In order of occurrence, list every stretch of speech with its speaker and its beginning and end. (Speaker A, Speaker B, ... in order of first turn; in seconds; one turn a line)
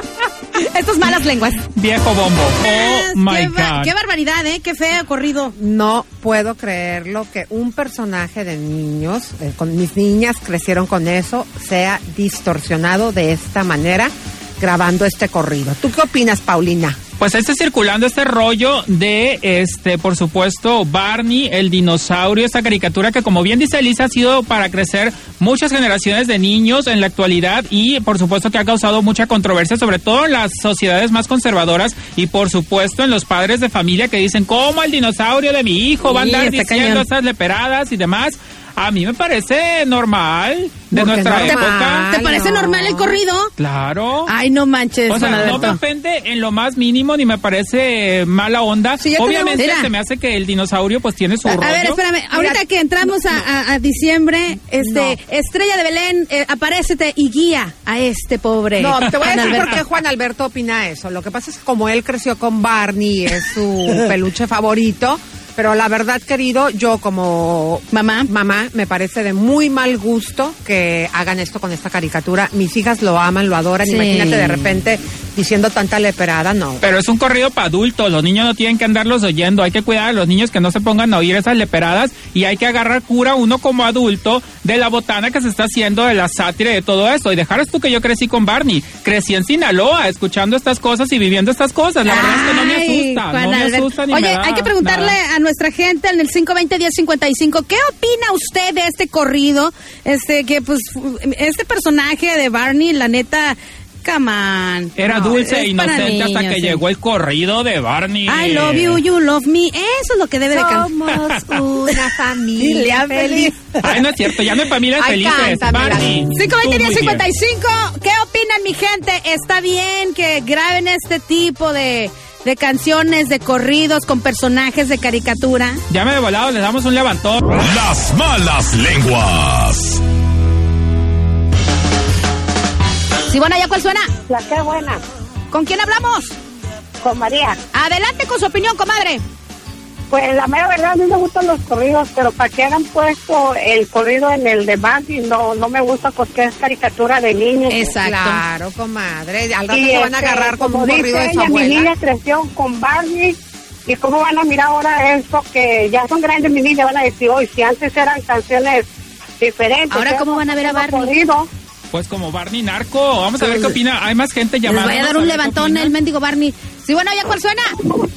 Speaker A: 0.6-1.6
Speaker B: 1.7-3.9
Speaker A: 2.6-5.5
Speaker C: 5.6-17.0
Speaker B: 17.2-42.1
Speaker A: 36.0-37.0
Speaker C: 40.9-43.2
Speaker A: 41.4-43.5
Speaker B: 43.6-44.3
Speaker A: 44.3-45.8
Speaker B: 45.1-52.0
Speaker C: 45.3-45.6
Speaker A: 49.0-49.9
Speaker A: 51.5-59.8
Speaker C: 52.3-53.5
Speaker C: 54.8-55.2
Speaker C: 58.8-76.8
Speaker A: 67.9-68.3
Speaker A: 73.8-74.8
Speaker B: 76.8-95.2
Speaker A: 92.0-106.8
Speaker B: 105.0-109.0
Speaker A: 108.3-112.1
Speaker C: 110.5-113.6
Speaker A: 112.6-113.8
Speaker B: 113.8-117.3
Speaker C: 115.0-116.1
Speaker A: 116.3-125.8
Speaker B: 125.9-127.5
Speaker D: 127.6-130.0
Speaker A: 133.3-134.1
Speaker E: 134.3-135.0
Speaker A: 135.5-136.3
Speaker E: 137.0-137.6
Speaker A: 137.7-139.2
Speaker E: 140.1-148.0
Speaker A: 147.7-148.4
Speaker C: 148.0-151.9
Speaker E: 149.7-161.5
Speaker A: 159.9-161.1
Speaker B: 161.9-165.9
Speaker A: 163.4-163.8
Speaker A: 164.7-167.9